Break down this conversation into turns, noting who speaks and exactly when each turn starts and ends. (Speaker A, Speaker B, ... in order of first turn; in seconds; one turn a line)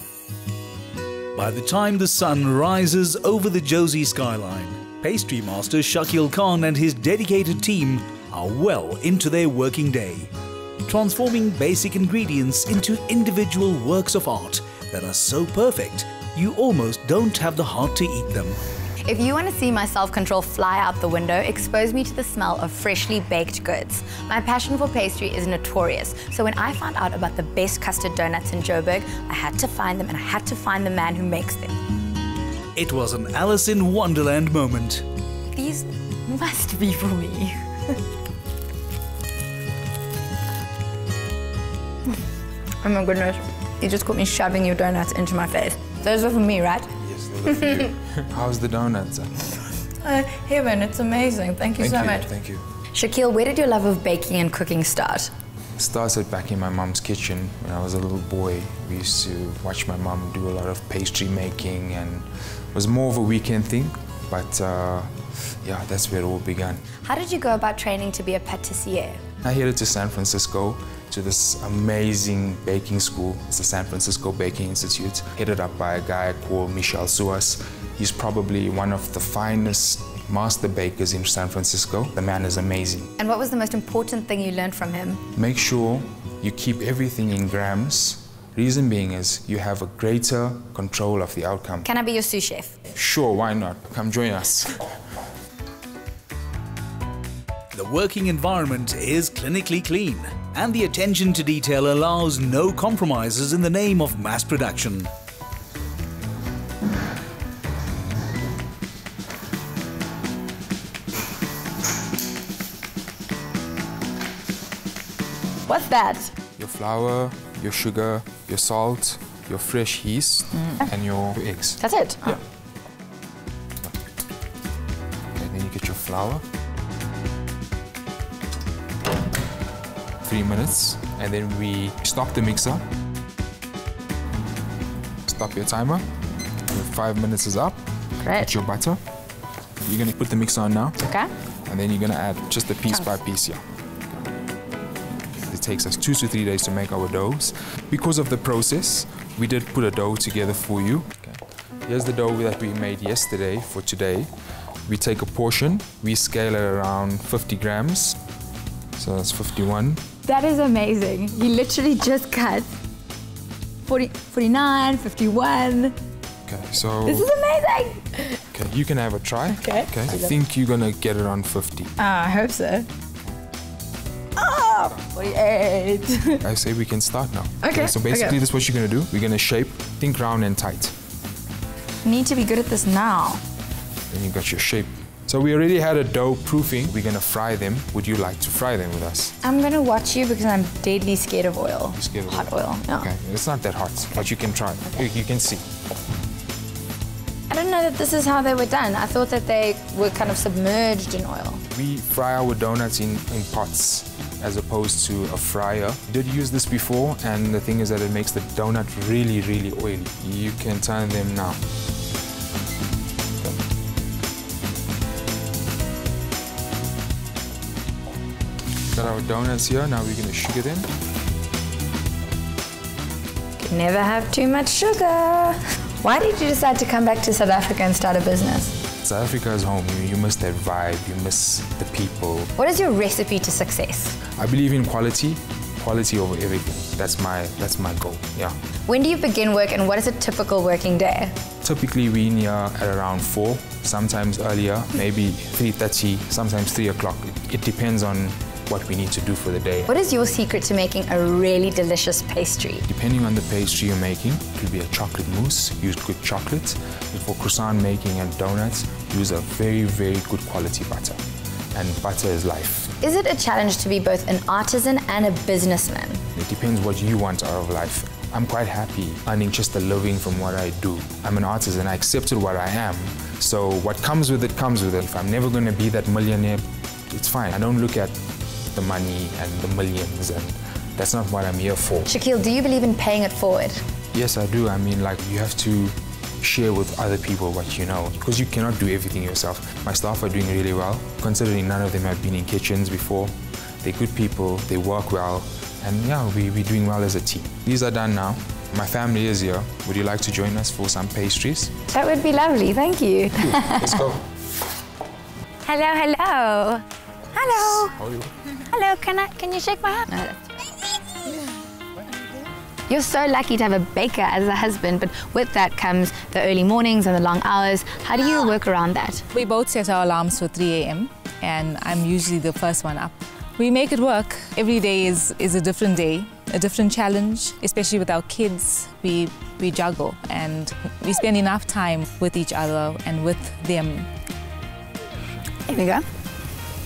Speaker A: 1.3-10.3
Speaker A: 10.8-18.6
Speaker B: 19.1-31.7
Speaker A: 32.8-35.0
Speaker B: 35.5-37.5
Speaker B: 42.8-46.9
Speaker C: 47.0-49.3
Speaker B: 47.5-47.9
Speaker B: 50.0-52.3
Speaker C: 51.8-52.6
Speaker B: 52.9-55.3
Speaker C: 55.8-66.8
Speaker B: 67.0-69.2
Speaker C: 69.4-83.1
Speaker B: 83.2-85.2
Speaker C: 85.3-91.9
Speaker B: 91.8-92.7
Speaker C: 92.9-94.8
Speaker A: 97.7-105.1
Speaker B: 115.7-116.3
Speaker C: 116.6-121.8
Speaker B: 121.8-122.4
Speaker C: 125.3-126.4
Speaker C: 130.2-132.8
Speaker C: 135.2-136.1
Speaker C: 136.7-137.8
Speaker B: 138.2-138.5
Speaker C: 138.3-139.0
Speaker C: 139.8-141.0
Speaker B: 141.0-141.3
Speaker C: 141.7-143.6
Speaker C: 145.5-154.3
Speaker C: 154.8-158.2
Speaker C: 159.0-160.0
Speaker B: 160.2-162.7
Speaker B: 163.8-165.9
Speaker C: 166.4-167.3
Speaker B: 167.1-168.4
Speaker C: 168.5-171.9
Speaker B: 169.5-170.3
Speaker B: 172.0-172.9
Speaker B: 174.3-176.4
Speaker C: 176.4-180.9
Speaker B: 177.6-178.4
Speaker B: 182.0-183.4
Speaker C: 184.1-189.3
Speaker B: 189.4-193.1
Speaker C: 191.9-195.6
Speaker B: 197.5-201.6
Speaker C: 201.7-211.6
Speaker C: 218.9-220.9
Speaker B: 223.6-228.7
Speaker C: 229.0-232.5
Speaker B: 232.6-234.2
Speaker C: 234.3-238.6
Speaker B: 238.9-241.3
Speaker C: 241.6-249.9
Speaker B: 249.9-252.8
Speaker C: 252.8-261.2
Speaker C: 261.7-262.9
Speaker B: 263.0-266.2
Speaker C: 266.3-278.2
Speaker C: 278.7-282.1
Speaker B: 282.1-283.8
Speaker C: 284.1-301.7
Speaker B: 301.9-304.1
Speaker C: 303.8-304.1
Speaker B: 305.6-308.0
Speaker C: 308.0-308.3
Speaker B: 308.5-310.7
Speaker B: 312.9-319.2
Speaker D: 319.3-334.1
Speaker B: 335.7-336.0